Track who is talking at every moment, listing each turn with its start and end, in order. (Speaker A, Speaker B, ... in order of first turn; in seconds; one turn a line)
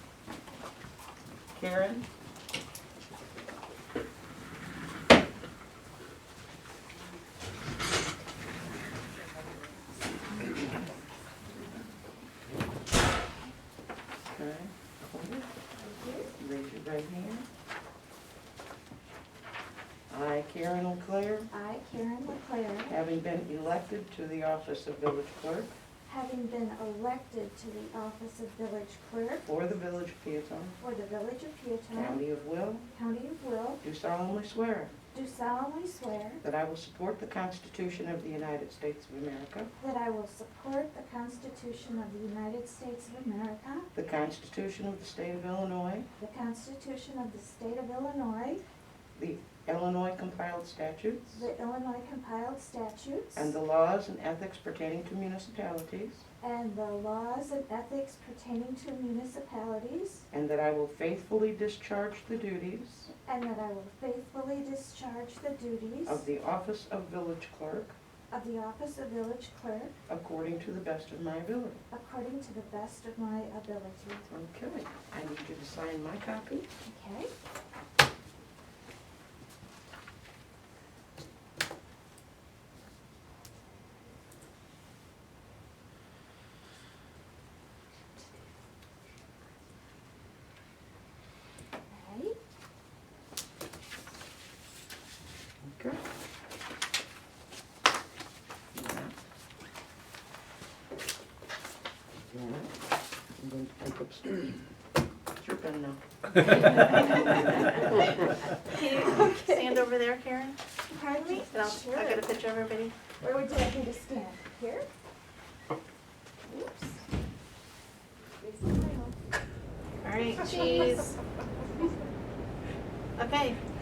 Speaker A: 1.5-2.0
Speaker A: 14.2-15.5
Speaker B: 15.8-16.3
Speaker A: 16.3-17.5
Speaker A: 20.1-21.5
Speaker B: 21.5-23.0
Speaker A: 22.8-25.7
Speaker B: 26.1-29.5
Speaker A: 29.4-30.8
Speaker B: 30.8-32.2
Speaker A: 31.9-32.9
Speaker B: 32.9-33.8
Speaker A: 33.8-34.9
Speaker B: 35.1-36.4
Speaker A: 36.4-39.7
Speaker B: 39.8-43.9
Speaker A: 43.9-46.1
Speaker B: 46.2-48.6
Speaker A: 49.1-51.5
Speaker B: 51.3-53.6
Speaker A: 53.3-56.2
Speaker B: 56.4-60.2
Speaker A: 60.3-63.1
Speaker B: 63.2-66.3
Speaker A: 66.0-67.9
Speaker B: 68.3-69.9
Speaker A: 70.1-71.8
Speaker B: 71.9-74.2
Speaker A: 74.2-76.7
Speaker B: 76.8-77.3
Speaker B: 91.9-92.3
Speaker A: 95.6-96.0
Speaker A: 98.7-99.1
Speaker A: 102.3-102.7
Speaker A: 103.4-104.6
Speaker A: 105.3-106.7
Speaker B: 108.7-109.8
Speaker C: 108.8-110.5
Speaker B: 110.9-112.3
Speaker C: 111.4-113.1
Speaker B: 113.2-114.9
Speaker B: 116.5-117.0
Speaker B: 118.4-119.1
Speaker C: 120.0-121.2
Speaker C: 123.2-123.6